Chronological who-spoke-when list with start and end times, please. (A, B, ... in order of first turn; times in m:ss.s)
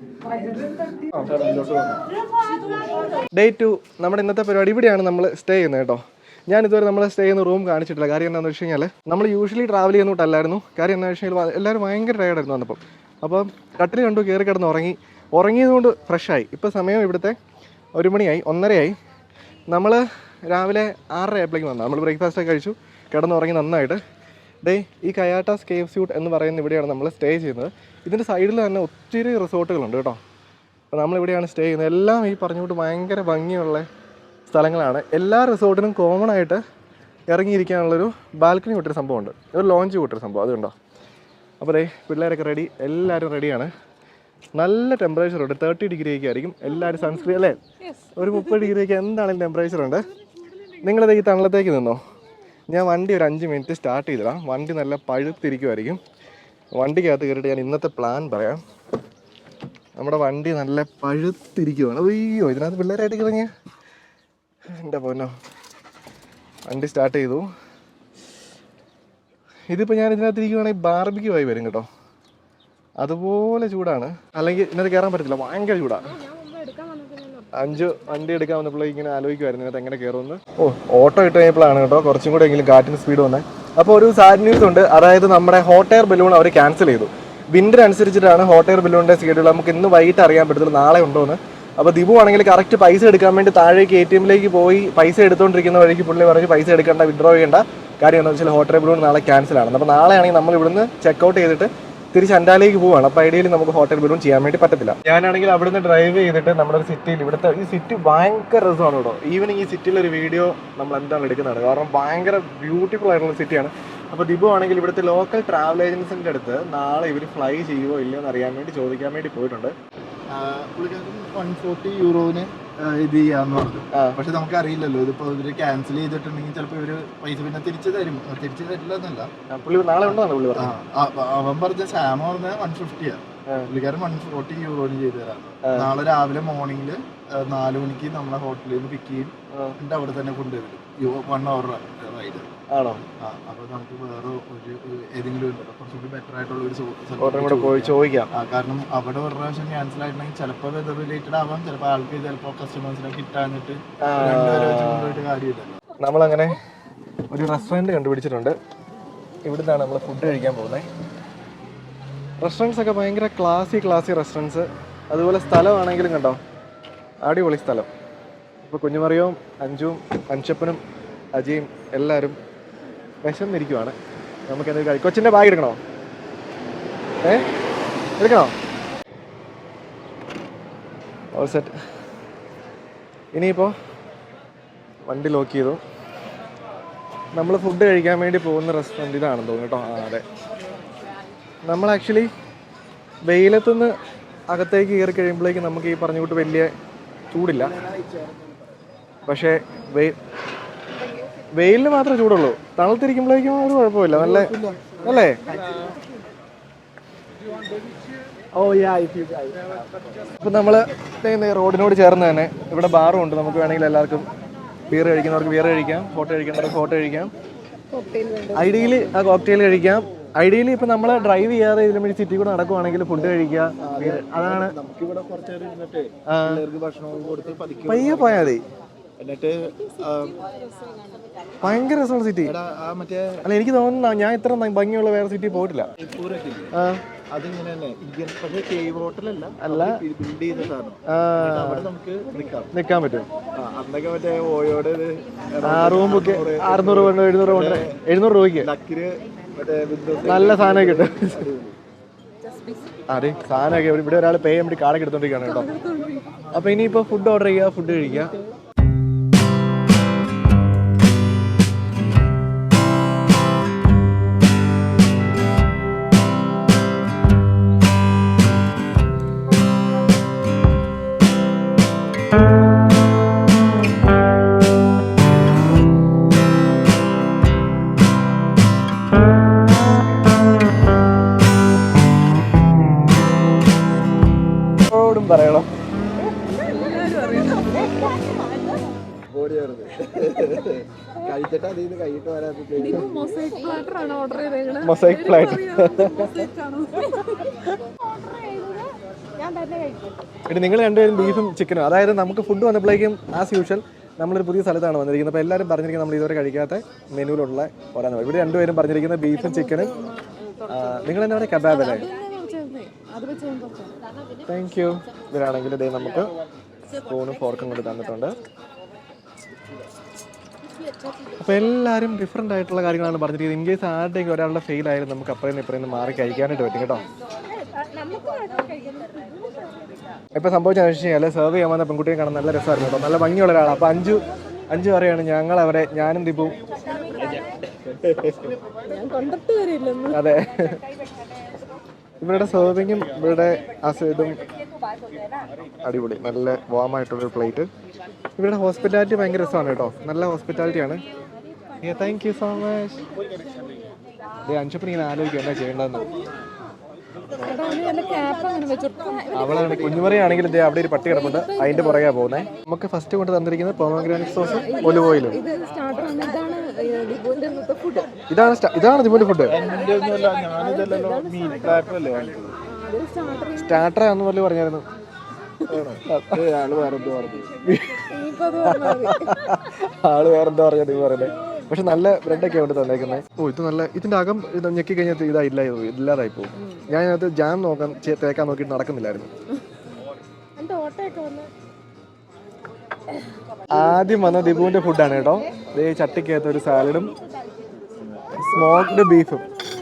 0:00.2-0:01.3 A
0:01.2-0:02.0 B
0:03.3-0:17.4 C
0:18.0-0:19.0 C
0:19.7-0:24.0 C
0:24.6-0:30.2 C
0:30.9-0:33.9 C
0:34.5-0:36.6 C
0:37.3-0:40.7 C
0:41.6-0:43.7 C
0:44.5-0:47.6 C
0:47.8-0:48.7 A
0:48.1-0:50.0 C
0:50.8-0:52.0 C
0:52.7-0:56.0 C
0:56.7-0:58.6 C
1:00.0-1:03.5 C
1:04.7-1:05.3 C
1:06.7-1:07.5 C
1:09.7-1:11.9 C
1:13.0-1:16.1 C
1:16.1-1:17.6 A
1:17.5-1:59.7 C
2:00.3-2:09.3 B
2:09.5-2:10.8 C
2:10.0-2:22.5 B
2:15.6-2:15.9 C
2:19.5-2:19.8 C
2:22.7-2:23.0 C
2:23.2-2:35.8 B
2:27.2-2:28.3 C
2:34.0-2:35.2 C
2:36.0-2:36.6 C
2:37.3-2:38.5 C
2:39.4-2:40.9 C
2:42.4-2:46.4 C
2:47.2-2:47.9 C
2:48.6-2:50.8 C
2:51.4-2:52.4 C
2:53.2-2:55.8 C
2:58.2-2:58.5 C
3:01.3-3:01.7 C
3:03.3-3:03.7 C
3:05.1-3:05.8 C
3:07.3-3:10.2 C
3:11.6-3:12.3 C
3:13.2-3:13.9 C
3:14.5-3:16.7 C
3:17.3-3:17.8 C
3:17.5-3:18.8 B
3:19.3-3:20.2 C
3:21.5-3:25.4 C
3:24.1-3:26.0 B
3:28.5-3:30.2 B
3:30.4-3:34.3 C
3:34.9-3:37.3 C
3:37.9-3:39.0 A
3:38.5-3:44.7 C
3:43.8-3:48.6 B
3:46.3-3:46.6 C
3:47.9-3:48.6 C
3:49.2-3:50.4 B
3:50.5-3:51.2 A
3:51.6-3:52.6 C
3:52.4-3:53.4 B
3:53.4-3:55.9 C
3:56.0-3:56.7 B
3:56.7-3:57.0 C
3:57.3-4:02.7 B
3:59.6-4:00.0 C
4:01.1-4:01.9 C
4:02.7-4:03.3 C
4:03.6-4:08.0 B
4:05.6-4:08.7 C
4:08.6-4:11.8 B
4:10.2-4:11.5 C
4:12.4-4:12.9 A
4:13.1-4:15.7 C
4:15.5-4:16.4 A
4:16.5-4:18.3 C
4:44.9-4:45.7 C
4:46.4-4:48.4 A
4:49.3-4:53.1 B
4:52.8-5:00.2 A
4:54.8-4:56.4 C
5:00.5-5:09.9 C
5:09.3-5:11.1 A
5:10.7-5:12.1 C
5:11.6-5:14.0 A
5:14.5-5:16.3 C
5:17.0-5:18.4 C
5:21.4-5:27.0 C
5:27.7-5:29.8 A
5:30.3-5:36.6 C
5:37.2-5:38.6 B
5:38.8-5:40.2 A
5:40.1-5:40.8 C
5:42.2-5:44.4 C
5:45.8-5:47.7 C
5:48.4-5:51.0 C
5:51.8-5:53.0 C
5:54.4-5:56.1 C
5:57.4-6:00.0 A
5:59.3-6:05.4 C
5:59.6-6:00.2 B
6:01.1-6:02.1 A
6:04.5-6:08.1 A
6:08.3-6:09.6 C
6:09.4-6:12.6 B
6:09.5-6:11.8 A
6:12.7-6:13.9 A
6:13.6-6:14.8 C
6:15.7-6:17.5 B
6:16.0-6:16.4 C
6:17.6-6:18.1 C
6:18.1-6:19.5 A
6:18.7-6:29.3 C
6:30.6-6:31.5 A
6:33.7-6:37.1 C
6:38.4-6:39.4 C